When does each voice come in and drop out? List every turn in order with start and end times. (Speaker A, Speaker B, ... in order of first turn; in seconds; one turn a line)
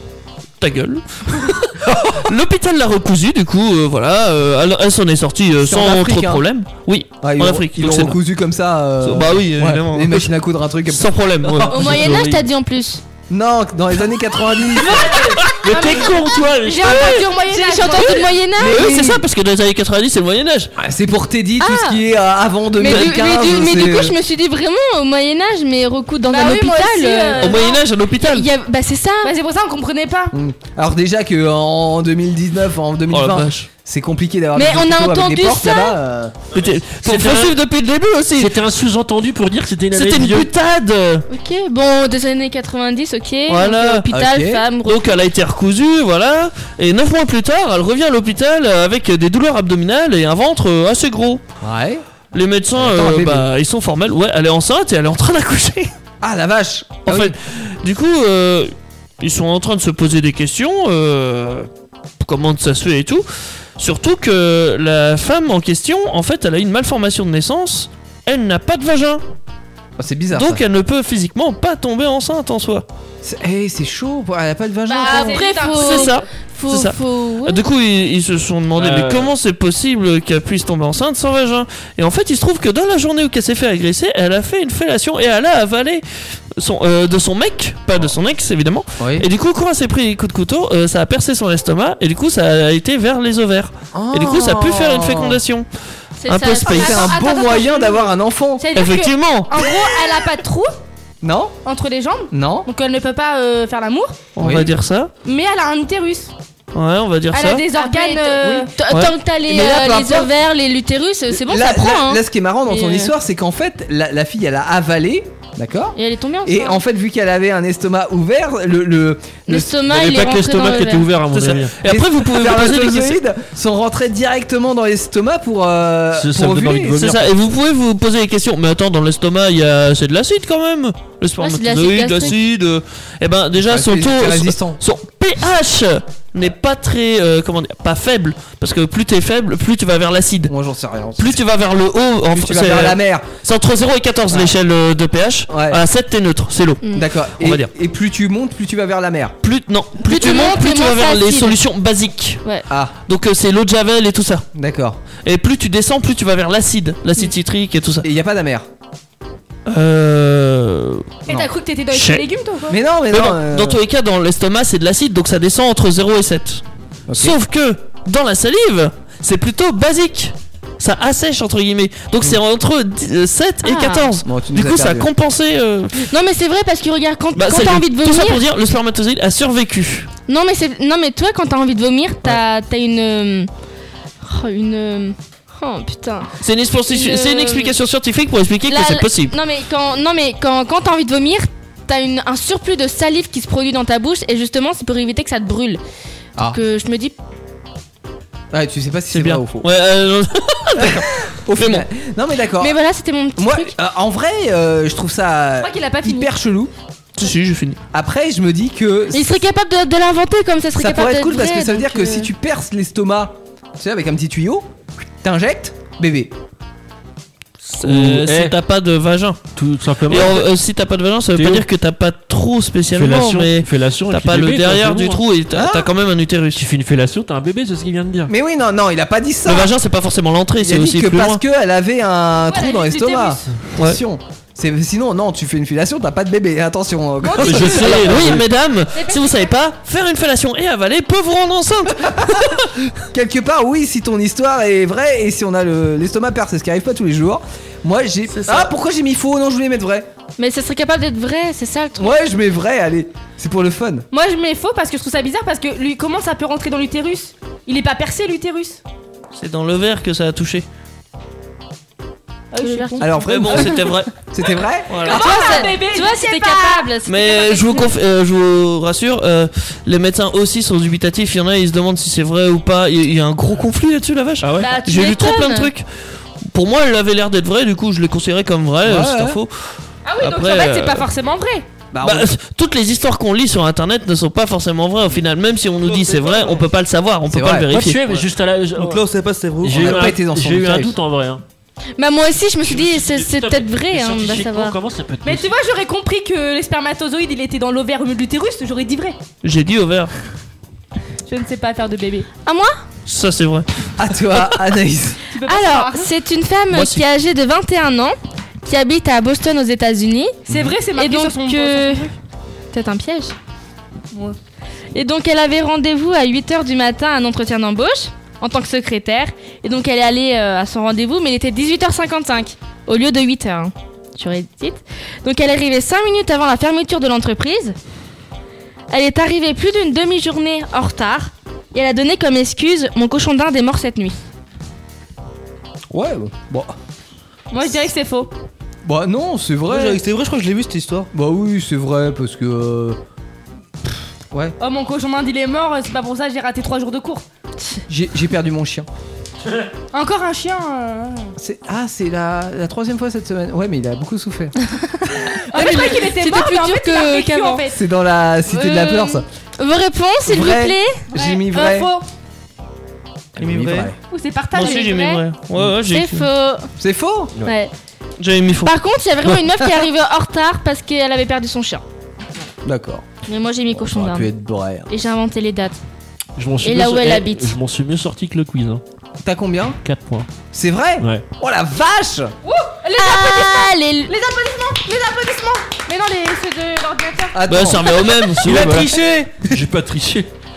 Speaker A: 0.6-8.2
Speaker B: 5.6-6.4
Speaker B: 7.2-11.1
Speaker A: 9.0-10.3
Speaker A: 10.9-11.7
Speaker C: 11.7-12.4
Speaker D: 11.7-13.0
Speaker B: 13.3-15.1
Speaker D: 14.9-18.9
Speaker C: 15.6-17.1
Speaker E: 16.9-18.4
Speaker B: 18.6-19.2
Speaker A: 18.7-20.7
Speaker B: 20.8-24.1
Speaker D: 21.6-22.0
Speaker D: 22.8-29.3
Speaker E: 26.3-27.8
Speaker A: 27.4-28.5
Speaker E: 29.2-30.3
Speaker B: 30.3-36.4
Speaker A: 33.1-33.7
Speaker D: 34.5-36.0
Speaker A: 36.5-38.5
Speaker C: 36.6-37.6
Speaker C: 38.4-40.5
Speaker A: 39.9-41.2
Speaker D: 41.3-45.0
Speaker A: 43.5-44.1
Speaker B: 44.1-44.6
Speaker A: 44.9-51.4
Speaker B: 51.6-52.0
Speaker A: 52.3-55.9
Speaker B: 52.8-53.5
Speaker B: 56.2-57.3
Speaker A: 57.1-61.7
Speaker A: 62.2-63.2
Speaker A: 63.8-69.2
Speaker B: 70.0-70.6
Speaker A: 70.3-72.8
Speaker B: 73.2-75.5
Speaker E: 74.9-76.2
Speaker D: 75.0-77.6
Speaker A: 75.7-86.0
Speaker C: 78.8-79.3
Speaker A: 86.6-95.7
Speaker B: 89.0-89.3
Speaker B: 93.9-95.4
Speaker D: 96.2-97.6
Speaker A: 96.2-97.1
Speaker B: 96.7-98.7
Speaker E: 96.8-98.1
Speaker E: 98.6-100.7
Speaker A: 98.8-99.5
Speaker B: 101.2-101.5
Speaker E: 101.6-104.2
Speaker B: 102.3-102.7
Speaker A: 104.4-105.1
Speaker B: 104.4-104.7
Speaker E: 105.2-106.3
Speaker A: 106.7-107.7
Speaker E: 107.3-108.7
Speaker D: 107.7-113.1
Speaker A: 108.9-109.2
Speaker B: 109.5-110.3
Speaker B: 111.3-119.7
Speaker D: 116.0-116.8
Speaker D: 119.5-121.1
Speaker C: 119.8-121.8
Speaker A: 121.3-123.2
Speaker B: 121.8-127.1
Speaker C: 126.2-127.3
Speaker A: 127.0-140.5
Speaker D: 131.4-132.3
Speaker B: 133.6-134.8
Speaker B: 140.5-141.4
Speaker A: 141.2-146.8
Speaker B: 142.3-143.3
Speaker B: 145.5-145.8
Speaker B: 146.9-149.4
Speaker A: 147.4-147.7
Speaker A: 149.4-152.4
Speaker D: 150.1-151.6
Speaker B: 152.7-152.9
Speaker A: 153.1-154.5
Speaker B: 154.6-155.0
Speaker A: 155.2-158.1
Speaker B: 158.0-158.7
Speaker A: 159.7-161.1
Speaker E: 161.3-162.8
Speaker A: 161.9-162.3
Speaker B: 162.7-163.8
Speaker A: 163.1-176.1
Speaker B: 167.1-167.4
Speaker D: 173.6-174.1
Speaker B: 174.2-175.1
Speaker D: 176.1-178.4
Speaker A: 177.3-180.1
Speaker D: 180.3-183.5
Speaker D: 184.2-186.3
Speaker A: 186.4-189.3
Speaker D: 186.9-187.7
Speaker D: 188.7-195.8
Speaker D: 196.5-197.2
Speaker B: 198.5-199.7
Speaker A: 199.1-201.9
Speaker B: 200.8-202.8
Speaker D: 202.6-203.7
Speaker B: 203.4-206.7
Speaker E: 205.6-206.3
Speaker A: 207.2-207.8
Speaker B: 207.9-209.4
Speaker D: 209.1-212.3
Speaker B: 210.8-214.7
Speaker B: 215.2-216.3
Speaker A: 217.7-219.5
Speaker C: 217.8-218.6
Speaker C: 219.6-220.4
Speaker A: 220.1-226.6
Speaker C: 221.3-221.7
Speaker C: 222.9-225.2
Speaker B: 225.5-225.9
Speaker C: 226.6-228.3
Speaker B: 228.3-229.7
Speaker A: 229.5-231.4
Speaker B: 230.6-238.4
Speaker E: 232.5-233.4
Speaker E: 237.3-237.8
Speaker C: 237.4-238.4
Speaker A: 237.4-242.8
Speaker E: 238.9-239.5
Speaker B: 243.1-250.1
Speaker A: 248.3-248.7
Speaker D: 250.4-252.2
Speaker B: 252.0-254.1
Speaker E: 254.1-258.8
Speaker A: 259.4-260.7
Speaker E: 262.5-263.2
Speaker D: 262.6-263.1
Speaker B: 263.0-265.6
Speaker A: 263.2-264.1
Speaker A: 264.9-265.2
Speaker E: 265.0-267.0
Speaker D: 265.1-267.8
Speaker A: 267.1-275.9
Speaker C: 274.4-274.7
Speaker D: 274.6-275.7
Speaker A: 276.5-279.5
Speaker B: 278.8-279.4
Speaker E: 280.1-281.7
Speaker A: 280.2-281.1
Speaker B: 281.9-282.3
Speaker A: 282.0-288.3
Speaker F: 285.9-286.6
Speaker B: 287.3-287.7
Speaker C: 287.7-289.0
Speaker F: 288.8-290.1
Speaker C: 289.6-291.4
Speaker B: 289.7-290.9
Speaker D: 292.0-294.8
Speaker C: 292.6-295.5
Speaker E: 295.2-299.2
Speaker A: 299.4-300.1
Speaker E: 301.3-302.3
Speaker D: 302.4-302.8
Speaker A: 303.1-303.7
Speaker B: 304.0-305.2
Speaker E: 305.3-306.1
Speaker D: 305.5-312.1
Speaker A: 306.7-307.0
Speaker E: 310.5-312.1
Speaker D: 312.7-313.4
Speaker D: 314.9-327.8
Speaker D: 328.9-334.2
Speaker B: 335.9-336.7
Speaker D: 337.5-338.3
Speaker B: 338.9-340.0
Speaker F: 339.7-341.1
Speaker B: 341.1-343.0
Speaker E: 344.6-347.2
Speaker B: 347.9-348.9
Speaker E: 349.9-351.3
Speaker B: 351.4-354.6
Speaker E: 355.5-357.8
Speaker D: 355.5-357.6
Speaker B: 357.7-359.2
Speaker D: 358.5-361.0
Speaker B: 360.3-361.9
Speaker E: 361.1-362.1
Speaker B: 363.4-364.0
Speaker F: 363.4-363.9
Speaker E: 364.0-365.2
Speaker A: 364.5-366.3
Speaker D: 364.6-364.9
Speaker D: 365.9-366.7
Speaker B: 366.8-367.3
Speaker D: 367.4-367.7
Speaker A: 368.2-368.8
Speaker D: 368.6-371.8
Speaker B: 372.6-373.1
Speaker D: 373.3-374.3
Speaker B: 373.7-374.9
Speaker D: 374.9-375.8
Speaker C: 376.4-378.8
Speaker D: 376.6-377.6
Speaker B: 379.2-379.8
Speaker C: 379.8-380.3
Speaker B: 380.5-382.3
Speaker E: 382.4-387.4
Speaker D: 382.9-384.1
Speaker B: 387.3-387.9
Speaker A: 387.5-388.9
Speaker C: 388.4-390.3
Speaker F: 388.5-389.6